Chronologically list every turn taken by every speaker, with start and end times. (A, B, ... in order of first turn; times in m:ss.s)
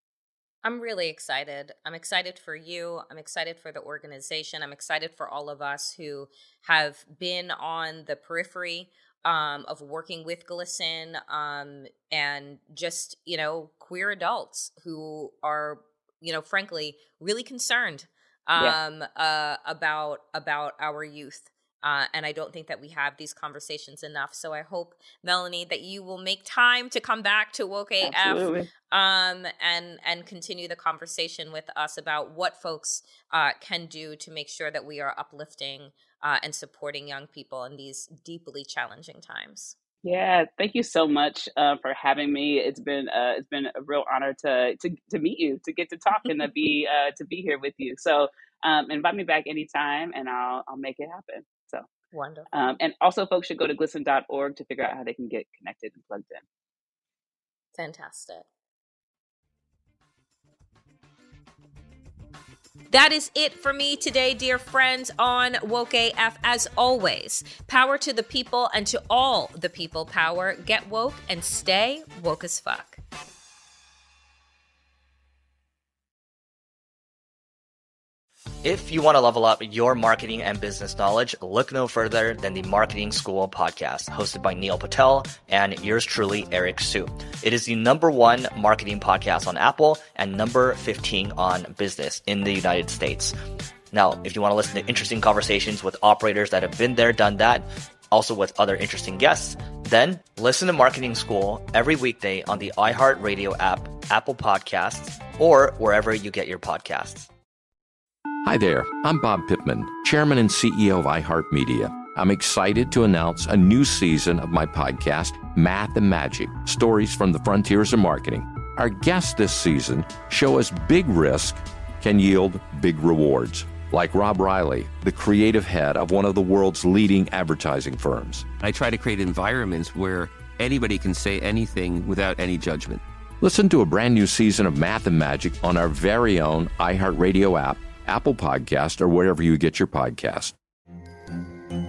0:00.6-0:39.7 A
0:28.0-0:28.7 B
0:40.0-0:51.9 B
0:52.1-0:52.5 A
0:52.5-0:56.4 B
0:57.7-0:58.4 A
1:02.9-1:13.0 A
1:18.6-1:33.3 C
1:33.9-1:47.3 C
1:48.4-2:08.5 D
2:08.6-2:13.0 E
2:13.4-2:20.5 D